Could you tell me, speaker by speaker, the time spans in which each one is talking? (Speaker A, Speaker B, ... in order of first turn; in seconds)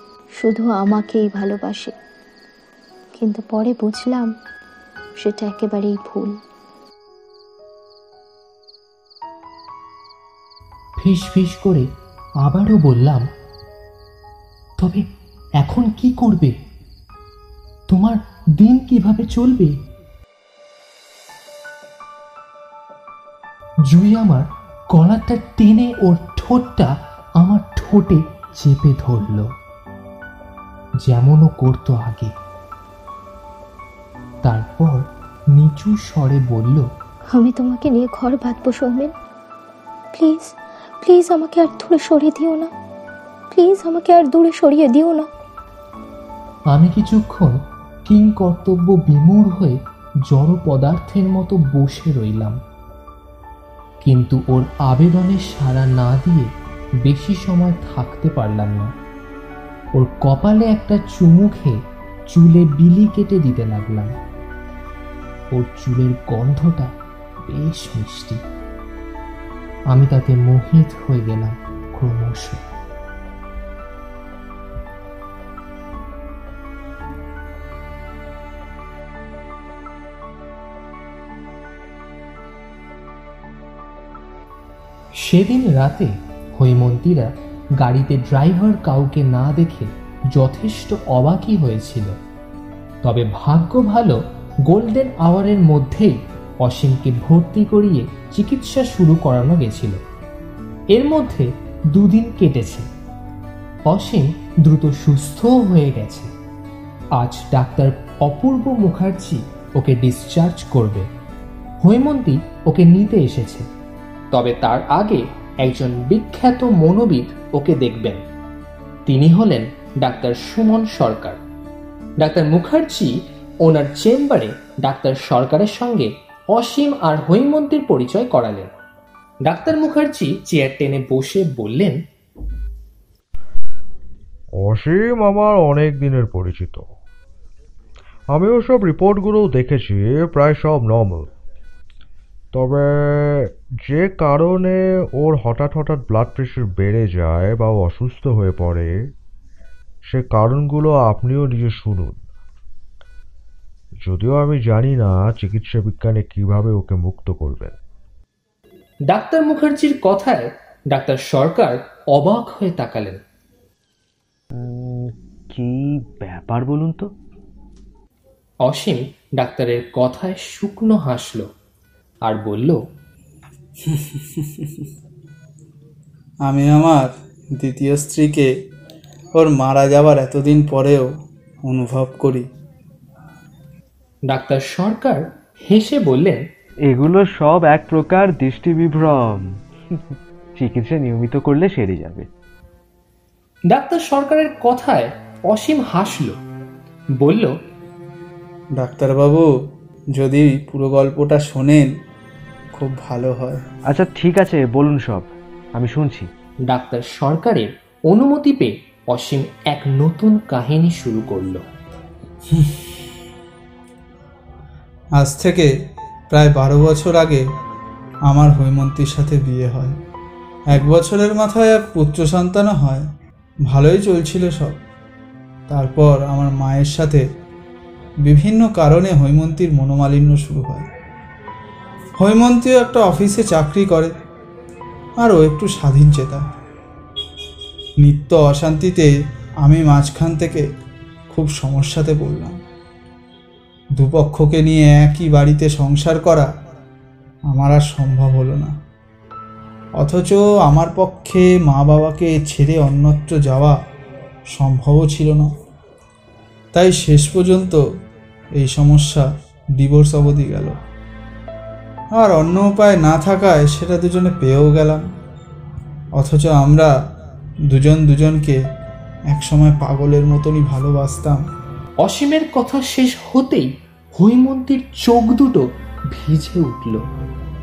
Speaker A: 0.4-1.9, 3.2-4.3, 5.2-6.4, 37.3-39.1, 40.1-42.7, 43.5-45.3
Speaker B: 11.0-11.9, 12.4-13.2, 14.8-15.1, 15.6-16.6, 17.9-19.8, 23.9-29.5, 31.0-32.3, 34.4-36.9, 46.7-52.6, 54.0-56.5, 57.0-58.9, 60.0-61.8, 62.3-64.1, 65.5-66.9, 67.4-68.4, 69.9-72.6, 85.2-92.2, 93.0-100.0, 100.9-102.9, 103.9-106.3, 107.2-111.1, 111.8-113.7, 114.3-118.2, 119.1-121.4, 122.2-128.7, 129.4-132.0, 159.1-163.2, 168.6-171.5, 172.2-172.8, 184.3-186.5, 193.7-196.4, 197.2-197.5, 206.7-211.6, 272.0-277.1
Speaker C: 134.6-136.9, 138.3-141.3, 142.5-149.1, 150.1-152.2, 154.0-157.8
Speaker D: 164.5-167.1, 186.8-189.6, 190.6-192.3, 203.9-206.3
Speaker E: 173.8-174.9, 176.4-178.5, 179.3-181.1, 181.7-182.5, 198.8-199.5, 200.1-201.9, 202.7-203.6, 212.5-212.9, 215.2-215.7, 216.3-217.4, 218.3-220.0, 220.7-223.1, 223.7-224.8, 225.7-227.2, 228.2-230.9, 232.2-234.1, 235.2-236.4, 238.0-239.1, 239.6-240.7, 241.3-242.6, 244.0-246.5, 247.5-248.8, 250.0-253.8, 254.5-255.5, 256.7-257.8, 258.6-260.8, 262.1-265.0, 266.2-266.9, 267.7-268.6, 269.3-271.4